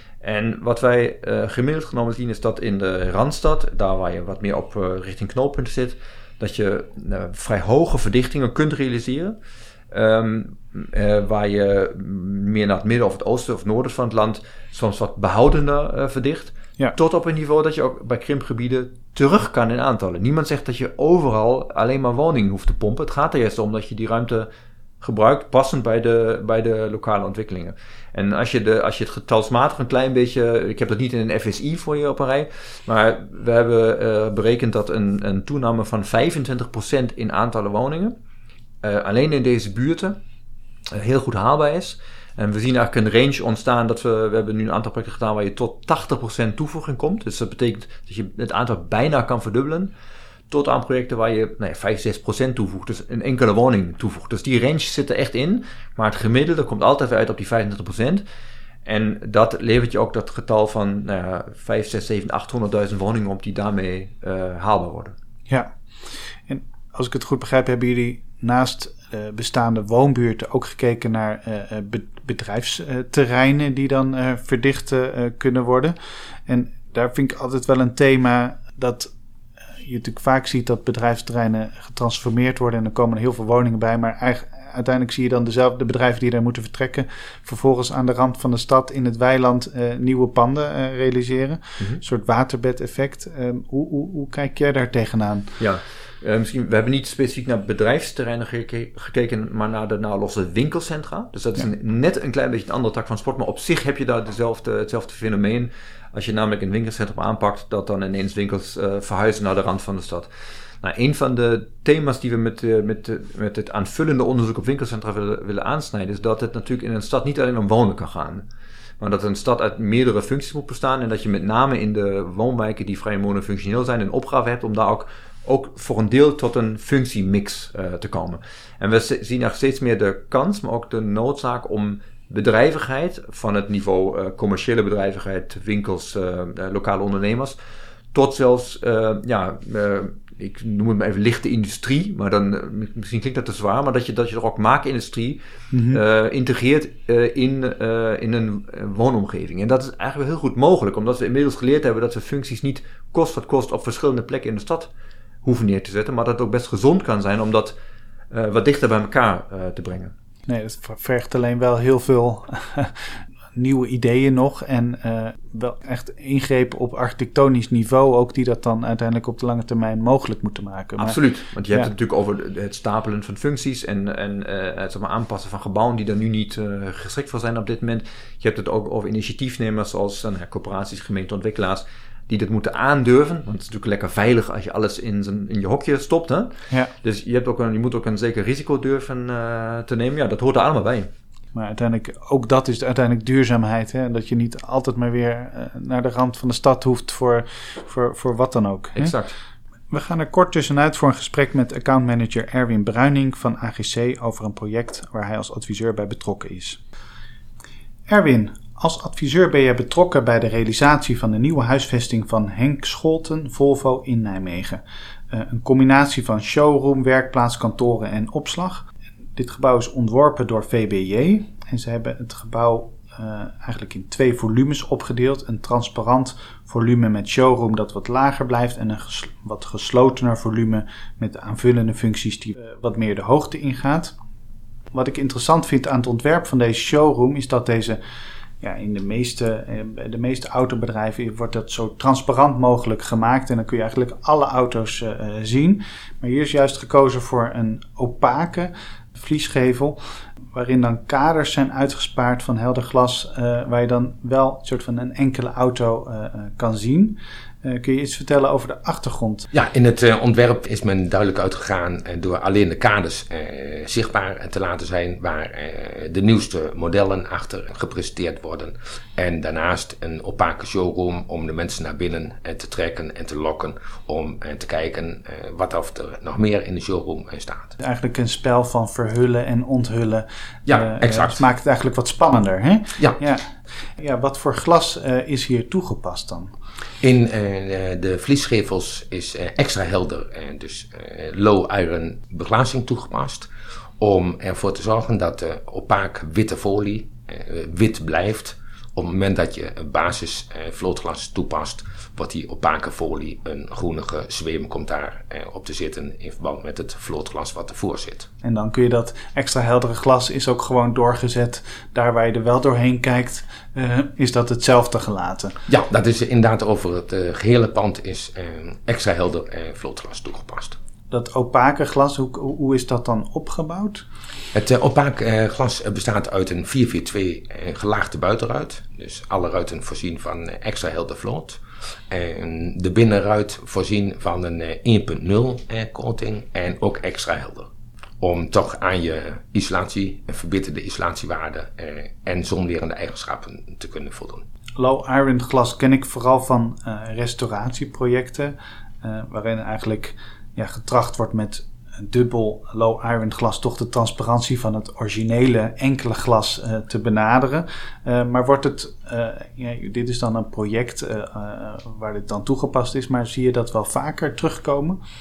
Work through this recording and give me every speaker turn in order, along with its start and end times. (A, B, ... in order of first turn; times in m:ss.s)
0:00.2-0:09.4 A
0:09.9-0:24.5 A
0:25.0-0:38.2 A
0:38.8-0:40.2 A
0:40.9-0:49.9 A
0:50.5-0:58.2 A
0:58.8-1:05.1 A
1:05.5-1:05.7 B
1:06.5-1:15.9 B
1:16.5-1:19.1 B
1:19.8-1:35.5 B
1:35.6-1:50.3 A
1:50.8-1:58.4 A
1:59.0-2:17.6 A
2:18.1-2:25.4 A
2:25.7-2:26.0 B
2:25.9-2:34.9 A
2:35.4-2:37.8 A
2:38.3-2:40.1 A
2:40.5-2:51.2 B
2:51.0-3:06.5 A
3:07.0-3:11.1 A
3:11.5-3:19.2 B
3:19.0-3:19.3 A
3:19.9-3:26.8 B
3:28.1-3:54.2 B
3:54.9-3:58.0 B
3:58.6-4:10.0 B
4:10.5-4:19.5 B
4:19.5-4:37.7 C
4:37.8-4:46.5 B
4:40.6-4:41.4 C
4:47.0-4:53.5 C
4:54.0-5:08.3 C
5:08.4-5:15.5 B
5:15.7-5:20.8 C
5:21.1-5:24.0 B
5:24.5-5:37.7 C
5:38.2-5:44.4 C
5:44.8-6:05.0 B